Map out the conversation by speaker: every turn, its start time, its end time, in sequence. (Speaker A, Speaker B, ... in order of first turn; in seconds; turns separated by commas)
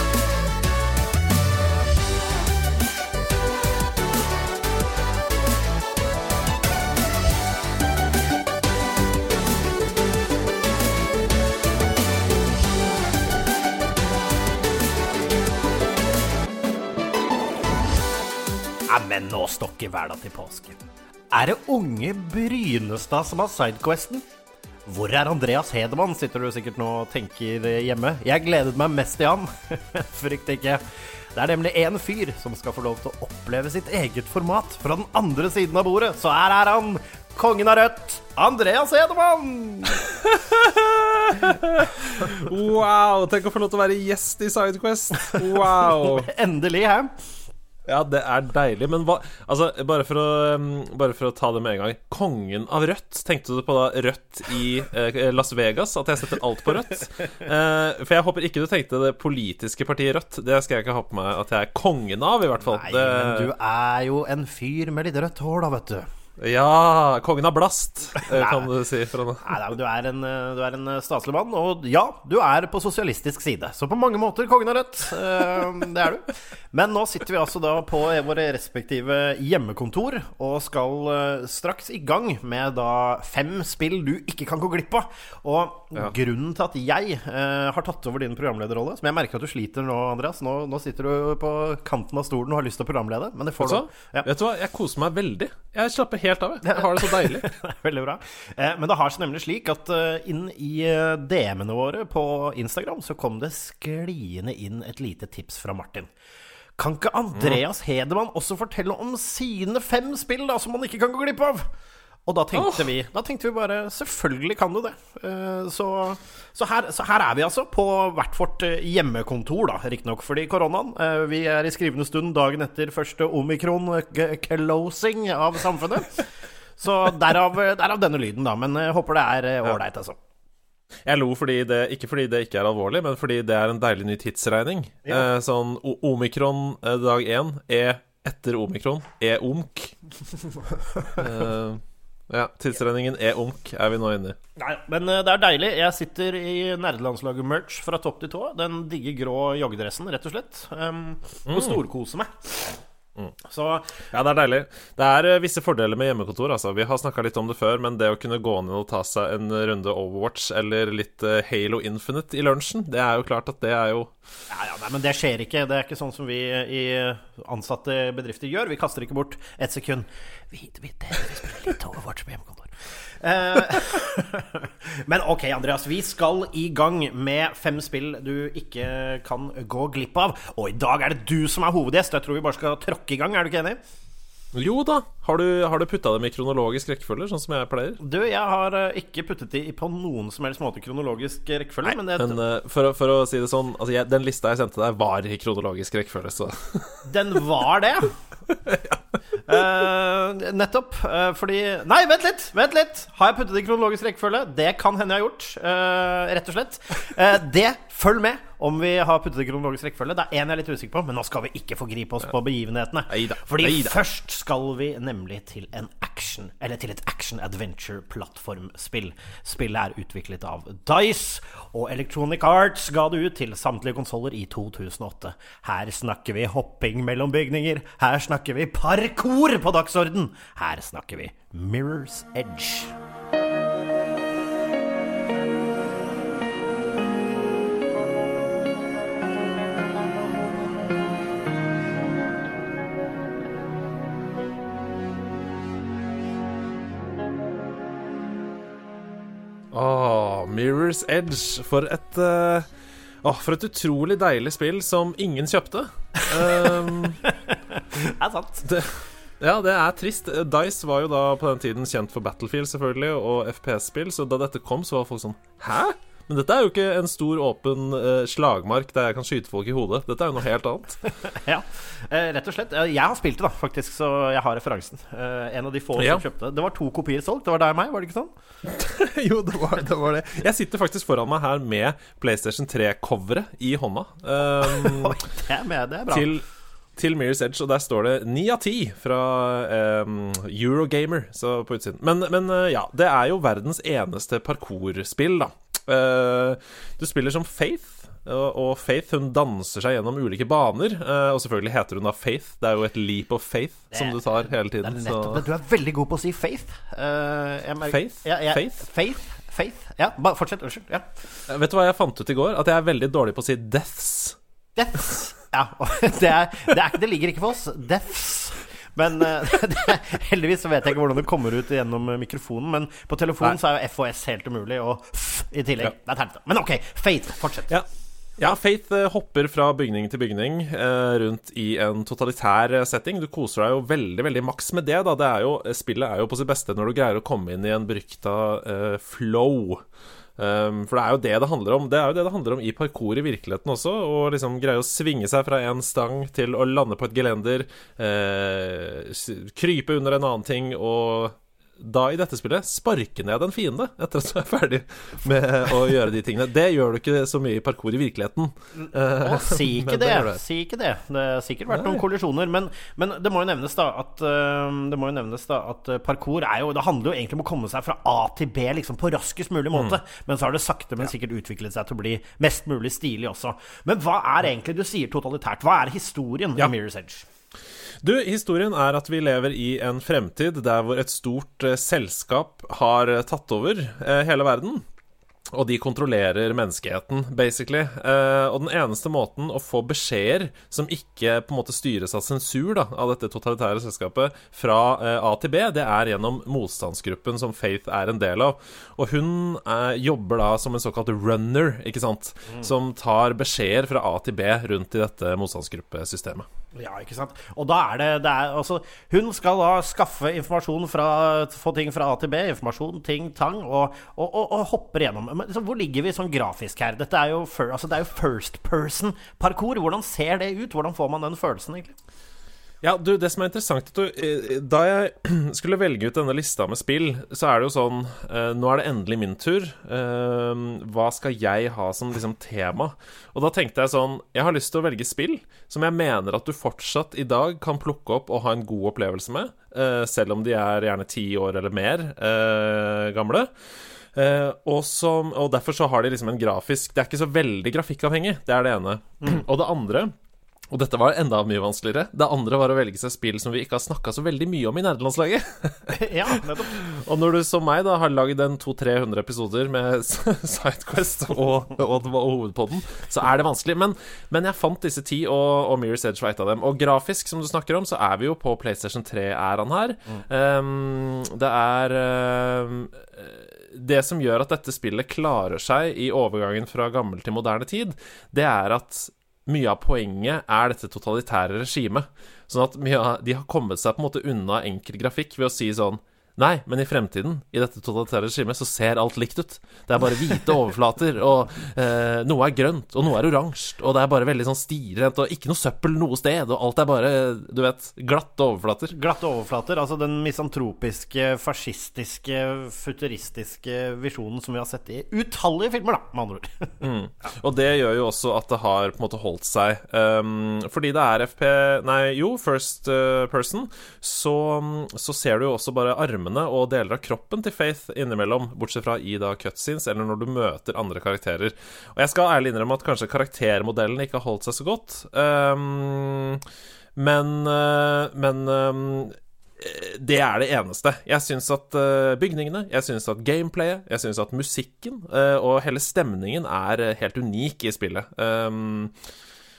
Speaker A: 18.9-20.8, Speaker A: 21.3-24.2, Speaker A: 24.9-30.8, Speaker A: 31.4-40.1, Speaker B: 40.1-46.3, Speaker A: 45.3-47.1, Speaker B: 47.9-63.5, Speaker A: 62.6-66.1, Speaker B: 66.4-69.5, Speaker A: 68.2-68.7, Speaker A: 69.4-94.3, Speaker B: 93.6-97.5, Speaker A: 96.6-106.1, Speaker A: 106.8-111.7, Speaker B: 107.4-107.6, Speaker A: 112.3-126.2, Speaker B: 112.5-112.9, Speaker A: 126.8-130.2, Speaker B: 131.1-139.9, Speaker B: 141.1-144.4, Speaker A: 144.6-152.8, Speaker B: 151.5-151.8, Speaker A: 153.4-154.1, Speaker B: 154.1-164.2, Speaker A: 164.5-183.8, Speaker B: 184.5-188.0, Speaker A: 188.0-192.4, Speaker B: 191.8-197.1, Speaker A: 197.1-198.1, Speaker B: 198.6-199.0, Speaker A: 199.5-232.9, Speaker B: 213.1-214.0, Speaker B: 249.7-252.7, Speaker B: 253.2-257.3, Speaker A: 256.2-258.7, Speaker B: 258.6-271.0, Speaker A: 271.2-278.3, Speaker B: 276.0-276.2, Speaker B: 278.6-285.2, Speaker A: 284.6-286.3, Speaker B: 286.1-286.4, Speaker B: 287.0-305.4, Speaker A: 303.9-304.2, Speaker A: 304.8-311.1, Speaker B: 307.9-308.8, Speaker B: 311.5-314.4, Speaker A: 314.8-327.8, Speaker B: 328.4-339.8, Speaker B: 340.4-360.4, Speaker A: 358.8-377.3, Speaker B: 361.7-362.0, Speaker B: 378.0-384.8, Speaker B: 385.5-406.5, Speaker A: 406.8-421.9, Speaker B: 422.8-443.5, Speaker B: 444.1-450.1, Speaker B: 450.7-498.9, Speaker A: 455.9-456.8, Speaker A: 498.9-506.8, Speaker B: 506.8-526.5, Speaker B: 527.0-539.0